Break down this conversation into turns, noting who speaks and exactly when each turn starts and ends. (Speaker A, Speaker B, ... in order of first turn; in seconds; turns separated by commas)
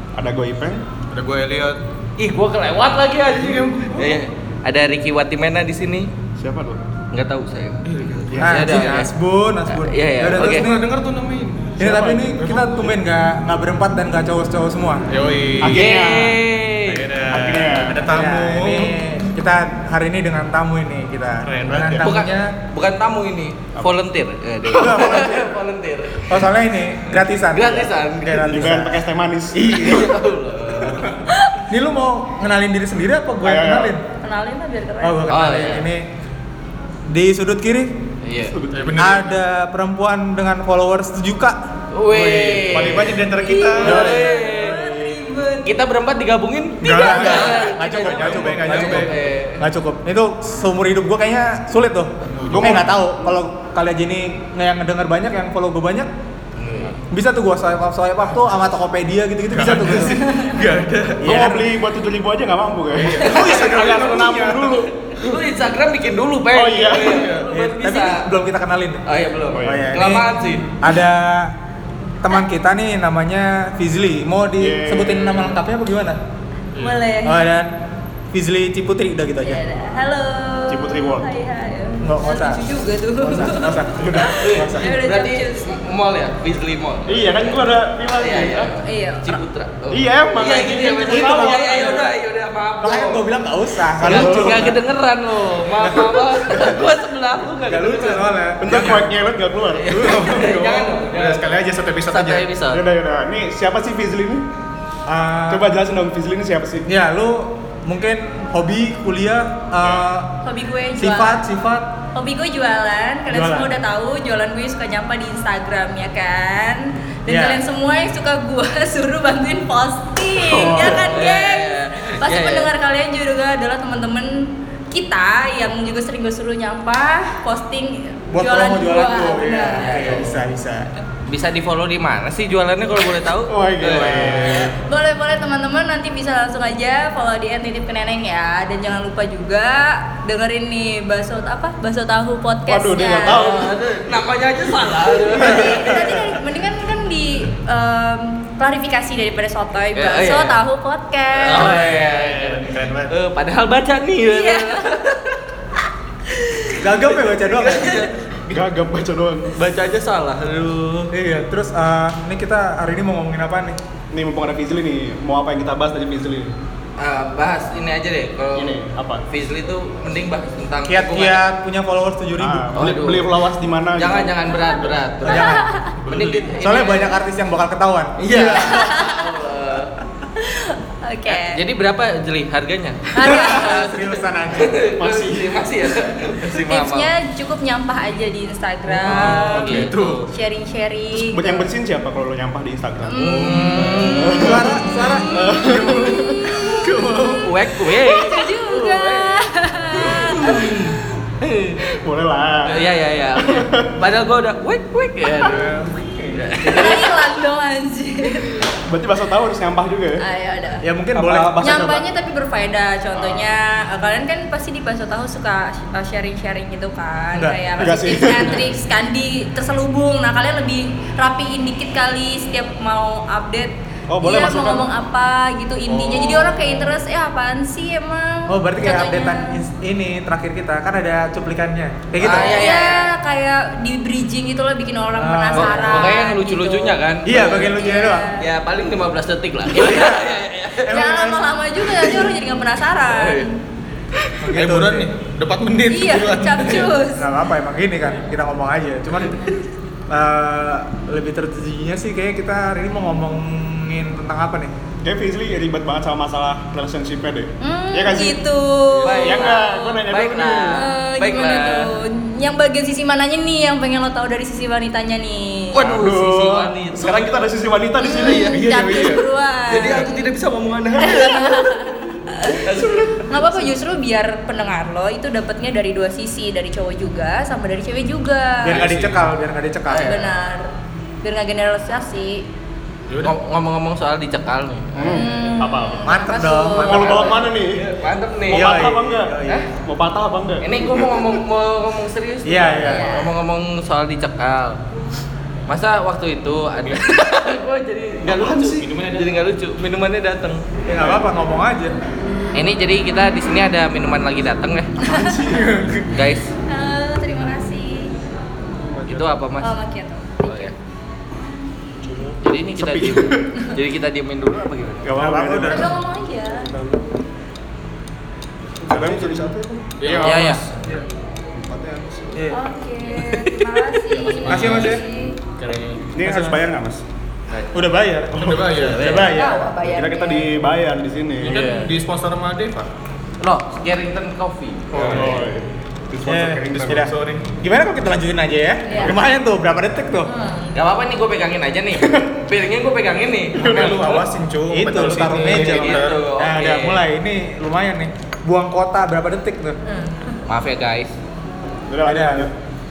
Speaker A: 0.1-0.8, Speaker B: 1.1-1.8, Speaker C: 2.2-6.1, Speaker B: 3.3-4.2, Speaker A: 6.4-6.8, Speaker C: 7.1-9.1, Speaker B: 7.8-8.3, Speaker A: 8.3-8.6, Speaker D: 8.4-10.9, Speaker C: 9.7-10.7, Speaker B: 10.3-12.9, Speaker D: 11.8-15.0, Speaker B: 15.1-16.0, Speaker A: 15.6-16.4, Speaker C: 15.7-17.1, Speaker B: 16.9-18.9, Speaker A: 17.3-18.0, Speaker D: 18.0-22.5, Speaker B: 21.4-22.1, Speaker C: 22.0-26.4, Speaker D: 24.7-25.5, Speaker D: 26.3-29.0, Speaker C: 27.5-28.6, Speaker A: 28.3-30.1, Speaker C: 29.5-31.1, Speaker D: 31.6-34.0, Speaker A: 33.4-34.0, Speaker E: 34.2-35.4, Speaker D: 35.0-36.0, Speaker C: 35.3-35.9, Speaker D: 37.1-37.9, Speaker C: 38.2-38.6, Speaker A: 38.5-39.1, Speaker B: 38.7-39.3, Speaker D: 39.0-41.6, Speaker C: 41.9-43.2, Speaker D: 42.1-42.9, Speaker B: 42.7-44.1, Speaker E: 43.4-45.6, Speaker C: 43.8-44.8, Speaker D: 43.8-45.3, Speaker C: 45.6-49.6, Speaker B: 46.8-49.2, Speaker E: 46.8-47.9, Speaker D: 47.0-56.1, Speaker B: 52.2-52.9, Speaker A: 52.5-53.3, Speaker C: 56.5-57.0, Speaker D: 57.1-60.4, Speaker B: 59.5-61.3, Speaker D: 61.2-61.7, Speaker A: 61.2-65.3, Speaker C: 63.0-68.3, Speaker B: 63.2-64.6, Speaker A: 66.5-67.3, Speaker B: 67.0-67.3, Speaker D: 67.5-69.0, Speaker C: 69.0-70.7, Speaker A: 69.5-69.9, Speaker D: 69.6-71.5, Speaker D: 72.2-76.2, Speaker A: 74.6-75.6, Speaker B: 76.7-77.0, Speaker E: 76.8-77.4, Speaker D: 77.2-77.7, Speaker D: 78.3-79.6, Speaker E: 79.4-85.8, Speaker A: 80.7-81.3, Speaker D: 82.0-82.6, Speaker D: 83.2-85.0, Speaker C: 84.3-87.6, Speaker A: 87.1-88.7, Speaker C: 88.2-93.2, Speaker E: 88.8-89.4, Speaker A: 89.9-92.1, Speaker D: 91.0-91.9, Speaker D: 92.8-94.8, Speaker A: 94.0-94.7, Speaker C: 94.0-98.5, Speaker B: 97.7-99.0, Speaker A: 98.6-100.9, Speaker D: 98.7-99.1, Speaker C: 99.7-101.5, Speaker B: 101.1-102.5, Speaker C: 102.1-102.8, Speaker A: 102.7-104.4, Speaker D: 105.1-105.8, Speaker A: 105.5-106.9, Speaker D: 106.9-110.4, Speaker E: 110.4-111.4, Speaker D: 111.0-111.9, Speaker E: 112.1-130.2, Speaker D: 113.3-113.7, Speaker D: 117.3-117.6, Speaker D: 120.4-121.1, Speaker C: 120.6-122.7, Speaker D: 128.3-130.9, Speaker C: 129.8-130.4, Speaker C: 131.3-134.7, Speaker A: 133.5-134.7, Speaker E: 134.3-143.6, Speaker A: 142.7-143.7, Speaker C: 143.2-146.3, Speaker E: 145.3-151.7, Speaker A: 145.8-146.1, Speaker C: 149.9-150.6, Speaker C: 151.4-155.4, Speaker B: 151.5-153.1, Speaker E: 154.2-155.0, Speaker D: 156.8-158.1, Speaker C: 157.4-158.6, Speaker A: 158.5-159.5, Speaker C: 159.5-161.1, Speaker D: 161.1-163.8, Speaker A: 164.1-166.5, Speaker C: 167.0-168.7, Speaker A: 168.6-169.2, Speaker C: 169.3-171.4, Speaker D: 170.8-172.9, Speaker A: 172.4-174.4, Speaker C: 172.7-173.4, Speaker C: 173.9-177.1, Speaker D: 175.2-178.8, Speaker E: 175.3-175.9, Speaker B: 175.9-176.4, Speaker C: 178.2-179.9, Speaker E: 178.5-179.3, Speaker E: 180.4-181.6, Speaker C: 181.3-183.9, Speaker E: 183.1-183.9, Speaker D: 183.2-184.8, Speaker C: 184.5-187.1, Speaker A: 185.0-185.6, Speaker E: 186.4-191.7, Speaker B: 189.0-190.2, Speaker C: 189.0-190.3, Speaker A: 189.3-189.8, Speaker A: 191.1-193.2, Speaker E: 193.0-194.4, Speaker C: 193.2-194.6, Speaker A: 194.1-196.8, Speaker D: 194.2-195.7, Speaker E: 195.0-200.8, Speaker C: 196.6-201.8, Speaker B: 196.9-197.4, Speaker A: 202.0-203.9, Speaker C: 202.6-207.1, Speaker E: 206.6-208.6, Speaker A: 206.6-207.1, Speaker A: 208.8-210.2, Speaker E: 210.2-210.8, Speaker D: 210.8-212.0, Speaker A: 211.1-212.0, Speaker E: 211.6-229.6, Speaker D: 217.3-217.6, Speaker A: 217.8-218.7, Speaker A: 224.1-224.9, Speaker D: 225.9-226.8, Speaker D: 228.5-232.6, Speaker C: 232.2-233.1, Speaker E: 232.2-237.0, Speaker D: 235.2-236.2, Speaker C: 235.5-241.1, Speaker D: 237.2-238.3, Speaker E: 237.6-238.5, Speaker D: 239.8-241.4, Speaker E: 240.8-243.5, Speaker C: 243.1-243.5, Speaker D: 244.4-245.1, Speaker B: 244.4-247.0, Speaker E: 245.9-247.3, Speaker D: 247.1-249.5, Speaker D: 250.1-254.7, Speaker A: 255.0-258.4, Speaker E: 257.6-260.0, Speaker C: 259.0-261.9, Speaker A: 259.2-260.8, Speaker E: 260.7-265.8, Speaker C: 265.7-267.5, Speaker A: 265.8-269.2, Speaker E: 268.0-270.3, Speaker C: 268.1-273.6, Speaker B: 268.7-268.9, Speaker E: 271.0-272.6, Speaker A: 272.7-273.2, Speaker E: 273.3-278.8, Speaker D: 278.6-280.2, Speaker B: 278.7-279.2, Speaker C: 279.9-280.3, Speaker E: 280.0-280.7, Speaker E: 281.2-282.4, Speaker B: 283.1-283.3, Speaker C: 283.2-285.3, Speaker A: 284.9-286.1, Speaker E: 285.0-287.4, Speaker D: 286.0-287.4, Speaker A: 286.7-287.8, Speaker C: 287.0-288.8, Speaker A: 288.5-291.3, Speaker D: 288.5-289.6, Speaker C: 290.6-294.8, Speaker D: 292.4-293.1, Speaker E: 292.8-293.3, Speaker C: 295.7-300.6, Speaker A: 298.3-298.9, Speaker B: 298.6-299.4, Speaker D: 300.9-301.9, Speaker C: 302.5-305.0, Speaker E: 305.0-305.4, Speaker A: 305.0-305.8, Speaker B: 305.4-306.0, Speaker C: 306.1-306.5, Speaker E: 306.7-308.1, Speaker B: 308.8-309.3, Speaker C: 309.1-309.7, Speaker E: 309.6-310.7, Speaker C: 310.4-310.7, Speaker C: 312.4-315.1, Speaker A: 312.8-313.6, Speaker A: 315.0-316.0, Speaker D: 315.1-315.9, Speaker E: 315.7-316.7, Speaker A: 316.6-317.0, Speaker A: 318.8-320.4, Speaker B: 318.9-319.4, Speaker B: 320.0-321.0, Speaker C: 320.2-320.6, Speaker A: 321.5-322.4, Speaker E: 322.5-325.4, Speaker C: 323.2-324.6, Speaker B: 324.1-325.0, Speaker D: 324.5-325.0, Speaker B: 325.6-326.0, Speaker A: 326.1-327.0, Speaker D: 326.2-326.6, Speaker C: 327.5-327.7, Speaker D: 327.7-329.8, Speaker A: 328.3-331.5, Speaker B: 328.3-329.3, Speaker C: 328.8-329.3, Speaker E: 329.3-330.5, Speaker B: 331.4-332.9, Speaker C: 331.4-331.9, Speaker C: 333.4-335.4, Speaker B: 334.9-335.5, Speaker A: 335.0-337.0, Speaker D: 336.2-340.3, Speaker B: 336.7-337.5, Speaker E: 338.9-339.1, Speaker E: 340.2-340.7, Speaker C: 340.7-344.1, Speaker A: 341.9-342.2, Speaker A: 343.6-344.3, Speaker B: 343.6-346.2, Speaker D: 344.7-349.8, Speaker C: 345.3-347.0, Speaker E: 349.9-350.4, Speaker C: 350.5-351.1, Speaker A: 351.9-352.5, Speaker D: 352.0-352.5